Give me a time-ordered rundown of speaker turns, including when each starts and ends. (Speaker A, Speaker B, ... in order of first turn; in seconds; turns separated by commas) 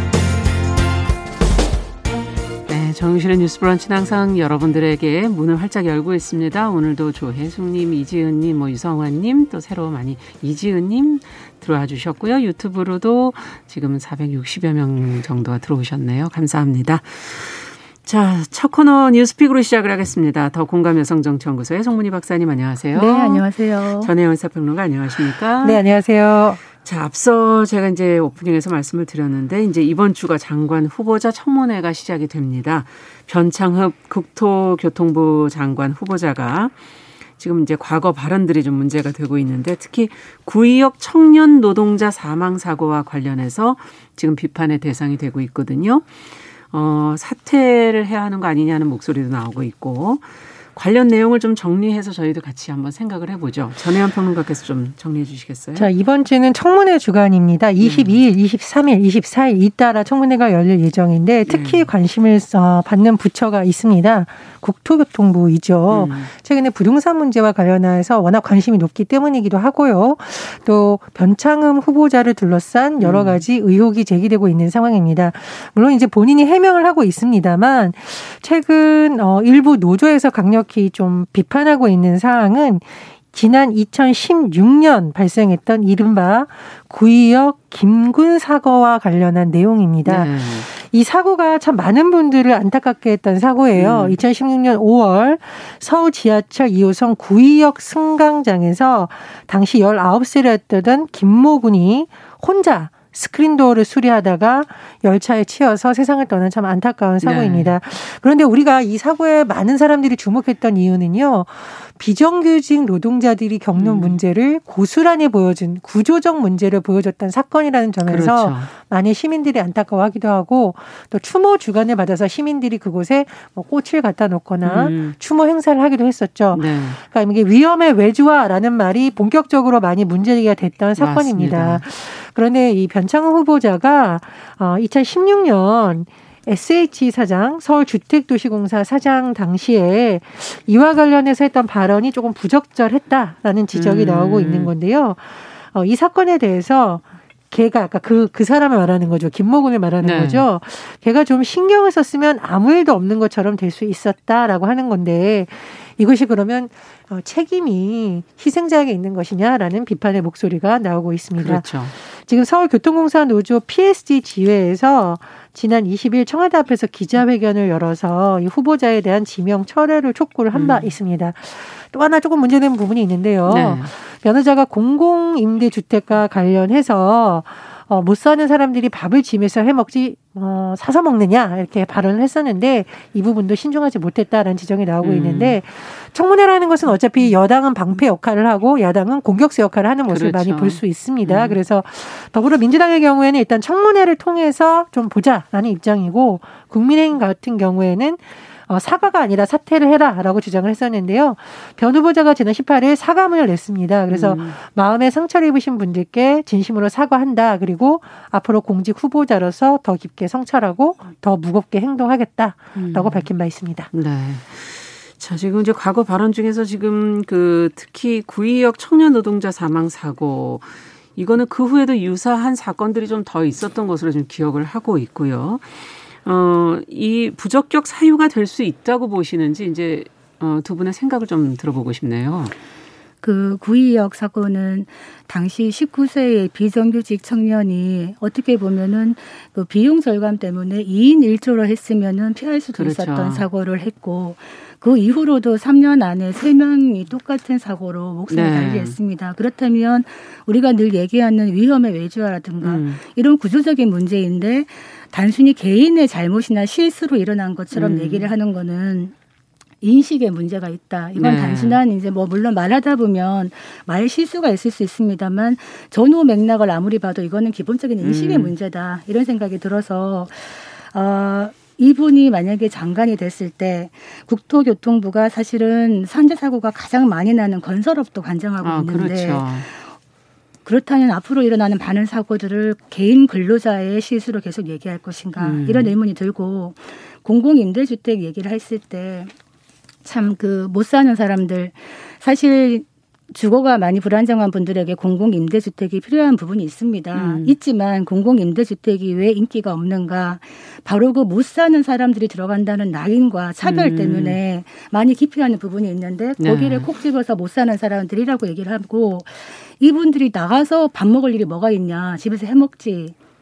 Speaker A: 2.7-25.8, Speaker B: 22.9-24.1, Speaker C: 25.6-26.6, Speaker A: 26.8-36.8, Speaker A: 37.4-55.9, Speaker C: 55.8-213.9, Speaker A: 57.8-58.2, Speaker A: 61.5-61.9, Speaker A: 65.9-66.3, Speaker A: 73.0-73.4, Speaker A: 90.0-90.7, Speaker A: 93.8-94.2, Speaker A: 107.2-107.7, Speaker A: 113.8-114.2, Speaker A: 118.0-118.7, Speaker A: 124.6-125.2, Speaker A: 126.5-127.0, Speaker A: 131.0-131.8, Speaker A: 143.7-144.7, Speaker A: 150.0-150.4, Speaker A: 161.4-161.9, Speaker A: 170.5-170.9, Speaker A: 173.5-173.9, Speaker A: 185.0-185.6, Speaker A: 190.1-191.6, Speaker A: 204.1-204.6, Speaker A: 212.8-213.3, Speaker A: 213.9-232.5, Speaker B: 233.2-259.1, Speaker A: 242.7-243.4, Speaker A: 248.3-249.0, Speaker A: 252.6-253.0, Speaker A: 257.7-258.3, Speaker B: 259.8-279.9, Speaker A: 261.2-261.8, Speaker A: 268.0-268.5, Speaker A: 278.6-279.7, Speaker B: 280.6-289.3, Speaker A: 285.4-285.9, Speaker B: 290.1-313.1, Speaker A: 297.1-297.5, Speaker A: 303.6-304.4, Speaker A: 306.4-306.9